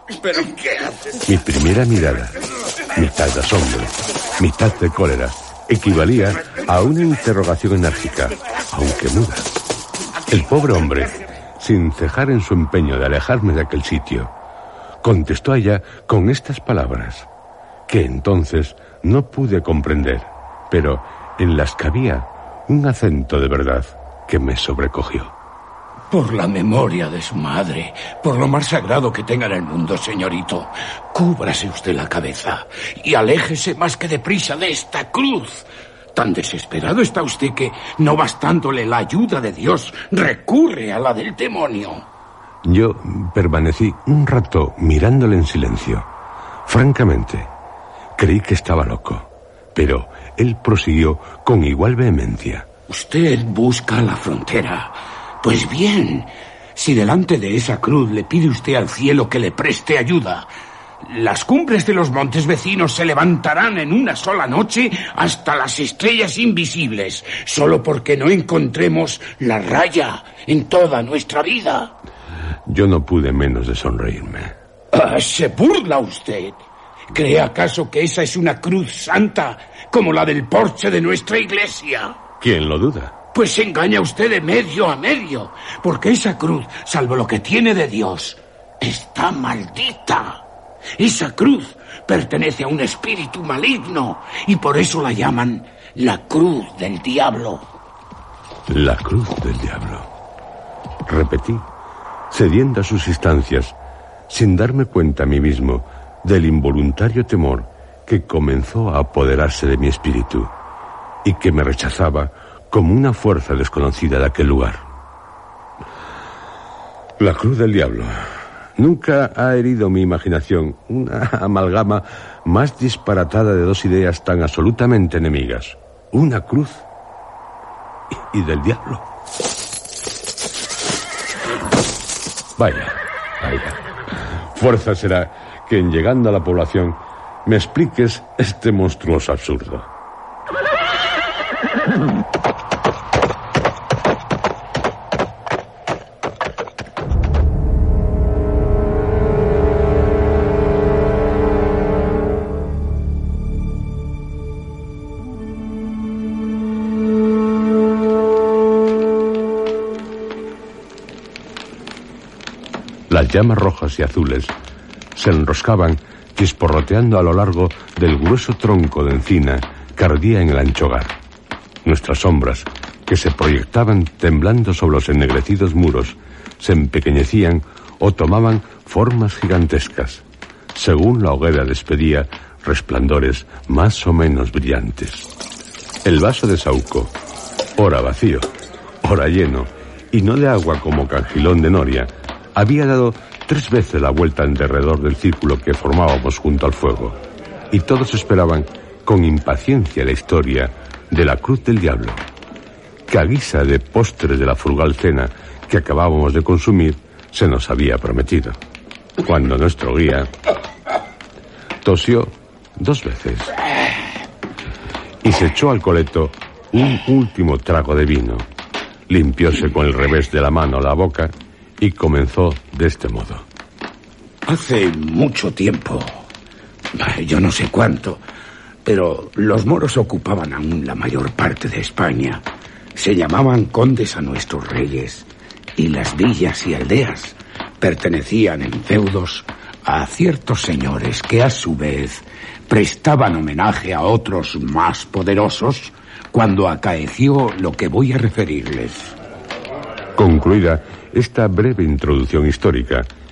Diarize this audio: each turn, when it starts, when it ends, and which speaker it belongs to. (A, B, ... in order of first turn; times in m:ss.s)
0:01.2-0:02.4 A
0:03.0-0:09.5 A
0:10.3-0:14.3 A
0:15.0-0:17.3 A
0:17.9-0:25.3 A
0:26.1-0:42.0 B
0:42.6-0:46.1 A
0:46.7-0:47.5 A
0:48.2-0:52.7 A
0:52.9-1:00.5 B
1:01.0-1:11.9 B
1:12.7-1:14.6 A
1:14.9-1:22.2 B
1:22.4-1:23.1 A
1:23.3-1:30.4 B
1:31.0-1:37.7 B
1:38.7-1:40.1 A
1:41.1-1:41.6 A
1:42.3-1:43.8 A
1:44.3-1:50.5 A
1:51.2-1:54.8 A
1:57.2-2:06.8 A
2:08.2-2:09.0 A
2:12.6-2:19.9 A
2:43.1-2:44.5 A
2:45.2-2:51.1 A
2:51.8-3:00.2 A
3:00.7-3:05.3 A
3:06.0-3:07.1 A
3:07.8-3:08.5 A
3:09.0-3:17.2 A
3:17.7-3:22.2 A
3:23.1-3:28.6 A
3:29.2-3:30.3 A
3:31.8-3:33.5 A
3:35.2-3:38.5 A
3:39.1-3:43.5 A
3:44.5-3:46.2 B
3:46.9-3:48.2 B
3:48.8-4:09.2 B
4:10.2-4:13.1 A